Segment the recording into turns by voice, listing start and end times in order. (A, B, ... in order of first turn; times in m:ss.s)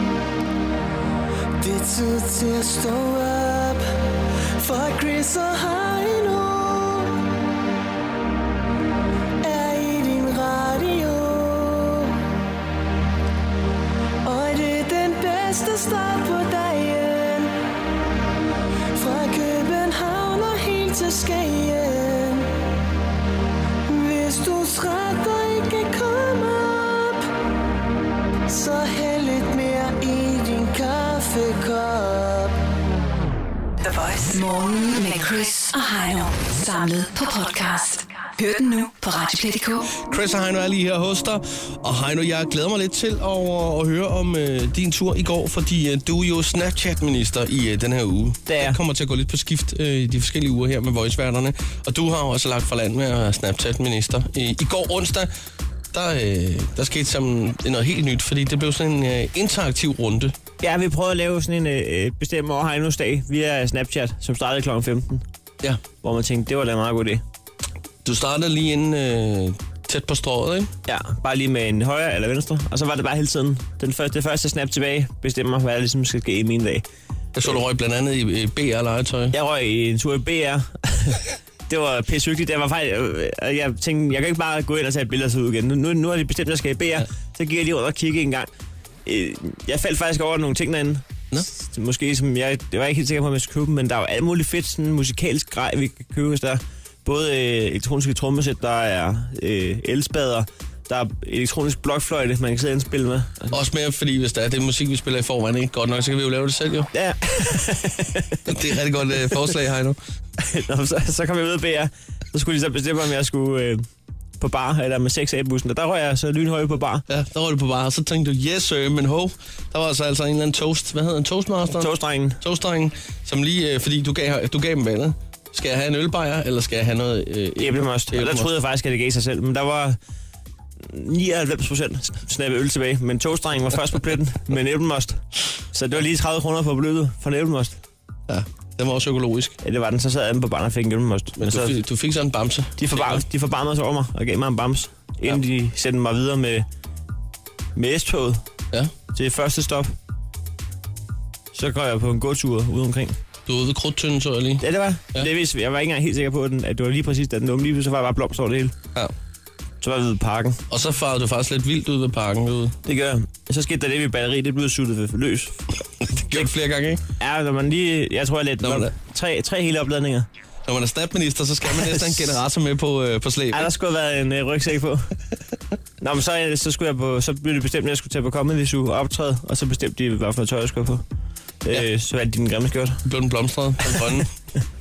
0:01.6-0:03.9 A
0:04.6-0:07.2 A
0:09.4-0:12.1 A
0:14.2-0:17.6 A
0:18.9-0:22.5 A
0:23.9-0:27.3 A
0:28.5-0:32.6 A
0:33.8-0:40.0 B
0:40.0-0:55.3 C
0:48.5-0:48.8 D
0:55.9-1:00.3 C
1:00.6-1:05.2 D
1:06.0-1:07.2 D
1:08.0-1:10.7 C
1:10.9-1:16.8 D
1:17.3-1:19.4 C
1:19.3-1:28.5 D
1:29.0-1:43.6 D
1:43.5-1:46.9 C
1:46.9-1:48.6 D
1:48.5-1:50.0 C
1:50.4-1:53.8 D
1:54.4-1:57.0 D
1:57.1-2:08.5 C
2:01.7-2:02.4 D
2:07.6-2:10.0 D
2:10.8-2:17.8 D
2:18.3-2:19.6 C
2:19.6-2:21.8 D
2:21.4-2:23.2 C
2:22.8-2:26.6 D
2:27.8-2:28.4 D
2:29.1-2:29.9 D
2:31.5-2:33.2 D
2:33.4-2:35.3 C
2:34.6-2:38.7 D
2:39.8-2:40.6 D
2:40.7-2:42.8 C
2:42.8-2:45.6 D
2:46.2-2:47.0 C
2:47.2-2:50.3 D
2:48.6-2:48.9 C
2:50.6-2:53.7 C
2:51.7-2:52.4 D
2:53.5-2:55.1 D
2:56.0-3:01.0 D
3:01.6-3:03.0 D
3:03.0-3:04.3 C